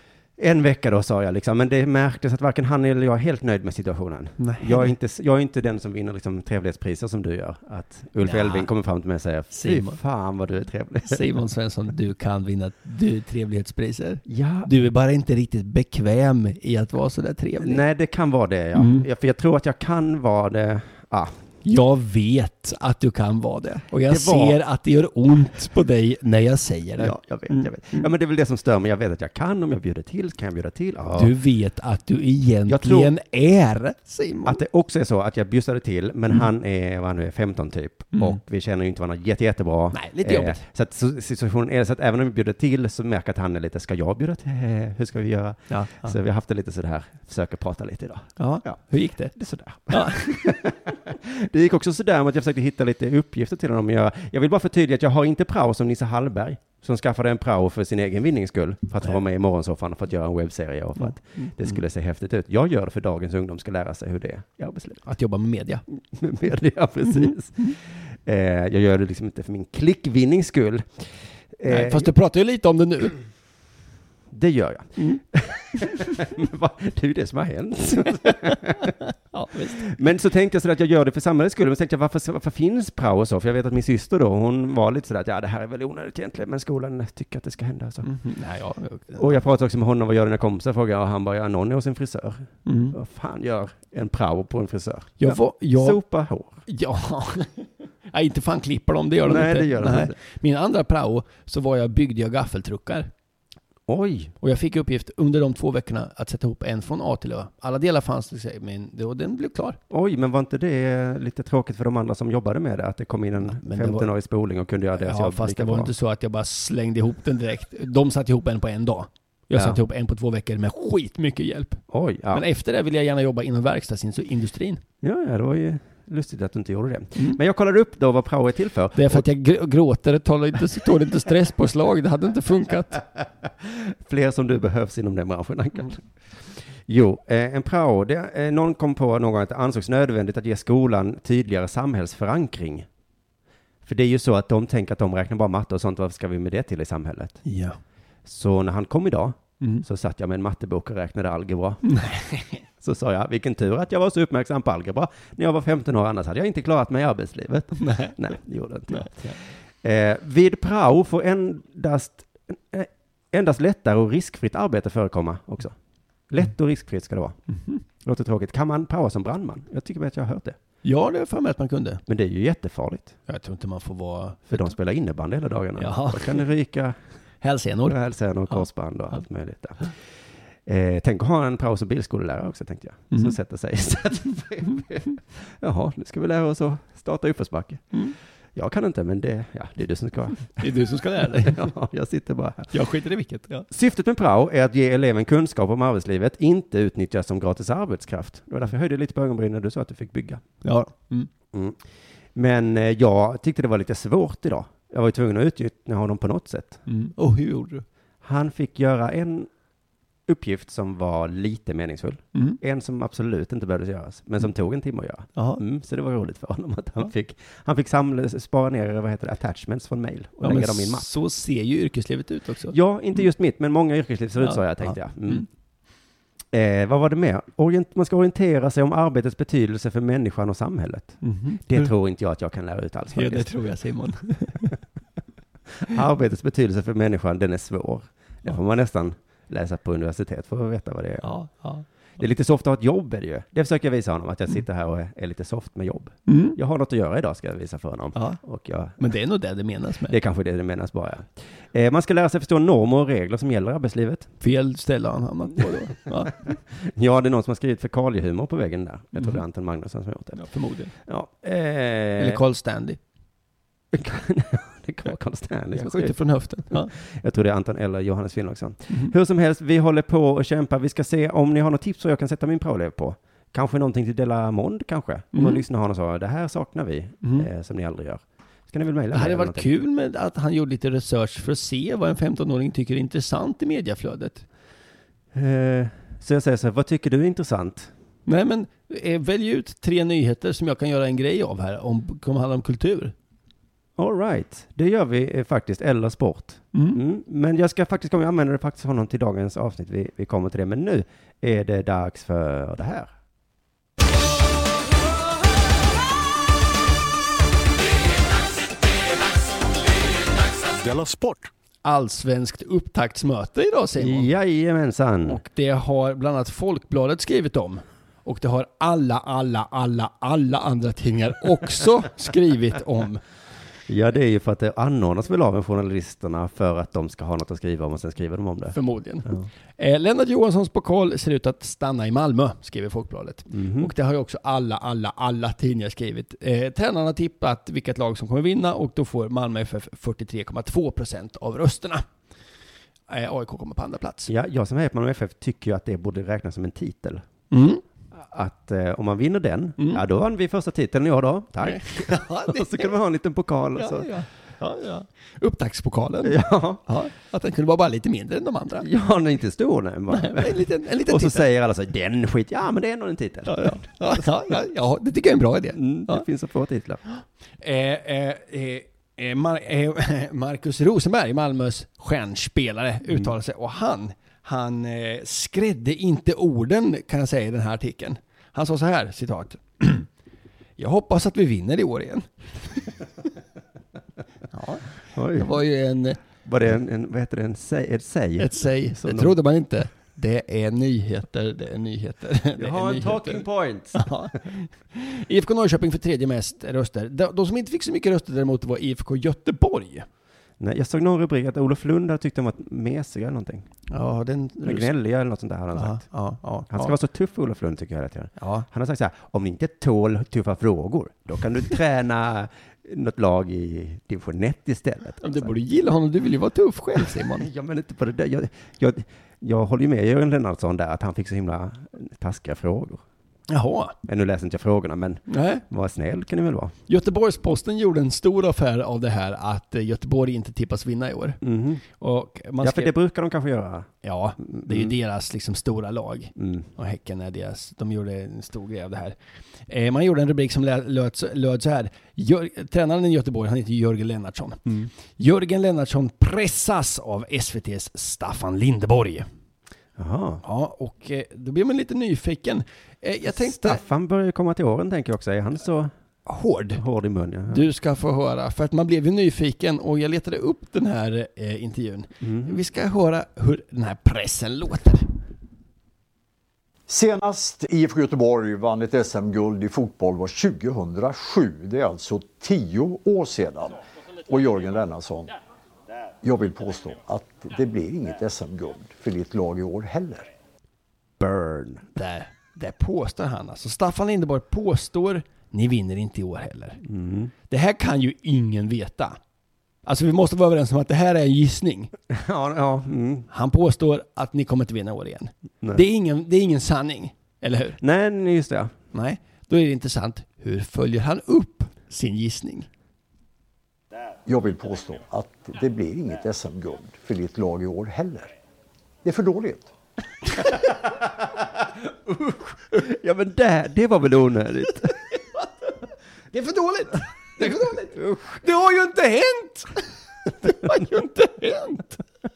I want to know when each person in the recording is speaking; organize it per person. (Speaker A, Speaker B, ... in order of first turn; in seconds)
Speaker A: 0.4-11.2, 14.3-14.7, 17.6-21.3, 24.1-24.6, 27.0-31.3, 32.7-33.1, 34.4-48.8, 49.3-65.0, 66.1-71.0, 71.6-72.1, 74.3-78.9, 79.8-88.1, 89.2-96.6, 99.2-100.1, 103.9-104.3, 109.9-115.9, 121.9-122.4, 125.0-129.2, 133.6-136.0, 136.9-142.8, 143.8-147.4, 148.2-151.8, 152.8-165.7, 166.3-167.4, 168.0-170.6, 172.1-173.1, 174.5-177.0, 177.9-179.9, 180.7-187.9, 188.5-192.8, 193.7-200.4, 201.5-201.8, 202.3-206.8, 208.2-209.5, 210.3-221.1, 222.7-225.4, 226.5-233.5, 235.8-241.3, 242.2-249.0, 250.1-254.3, 256.4-260.4, 261.1-262.4, 263.9-266.1, 266.7-279.7, 285.3-287.9, 294.0-303.1, 314.0-315.4, 323.9-328.8, 333.5-333.9, 344.3-347.2, 348.3-354.1, 356.2-356.8, 358.8-364.2, 365.8-367.0, 385.1-385.5, 386.4-389.3, 392.6-394.1, 400.6-403.7, 404.6-406.0, 406.7-415.5, 417.4-423.0, 424.0-426.7, 431.4-431.8, 432.6-433.9, 434.4-434.9, 436.4-436.7, 450.0-450.4, 453.3-455.9, 456.8-457.6, 462.2-462.6, 481.2-481.9, 486.8-487.3, 492.1-493.3, 497.8-498.7, 512.1-515.0
Speaker B: 4.4-4.9, 8.2-8.7, 9.5-10.0, 11.0-17.8, 18.8-19.1, 21.6-28.1, 31.1-34.6, 38.1-38.4, 39.9-40.6, 45.7-46.1, 48.4-49.4, 49.9-50.6, 61.0-61.8, 65.0-65.8, 71.7-73.2, 78.2-79.9, 88.0-89.3, 92.7-93.0, 95.2-96.0, 96.7-103.1, 104.4-109.8, 113.4-114.1, 115.0-124.8, 128.9-133.0, 147.4-147.8, 151.9-152.6, 157.8-158.2, 158.9-159.3, 170.8-172.0, 173.3-174.7, 175.8-176.4, 177.4-177.9, 190.6-191.7, 192.7-193.7, 200.6-201.3, 206.9-207.8, 215.3-215.6, 220.4-223.2, 224.4-225.4, 231.2-231.9, 233.1-234.7, 241.2-241.8, 246.3-246.6, 249.0-250.2, 254.4-256.4, 259.1-259.4, 260.4-260.9, 262.2-263.0, 265.7-266.9, 275.3-275.6, 277.2-277.5, 279.1-284.4, 288.2-293.1, 296.7-297.0, 311.8-314.3, 315.2-323.2, 328.7-342.0, 343.1-344.3, 347.5-347.8, 351.6-352.9, 353.8-358.9, 360.1-361.4, 363.5-366.2, 367.6-380.1, 380.8-382.9, 384.5-386.2, 388.4-400.1, 403.9-404.9, 405.7-406.9, 408.4-408.7, 415.2-417.5, 423.5-423.9, 425.3-425.6, 426.9-432.9, 434.0-439.1, 439.7-449.3, 450.4-453.8, 456.2-456.8, 457.5-465.1, 481.9-486.8, 487.5-489.2, 489.9-491.9, 493.3-497.8, 498.9-502.7, 516.3-519.9, 520.4-522.0
Speaker C: 466.9-475.3, 476.2-480.3, 504.2-508.3, 509.0-509.7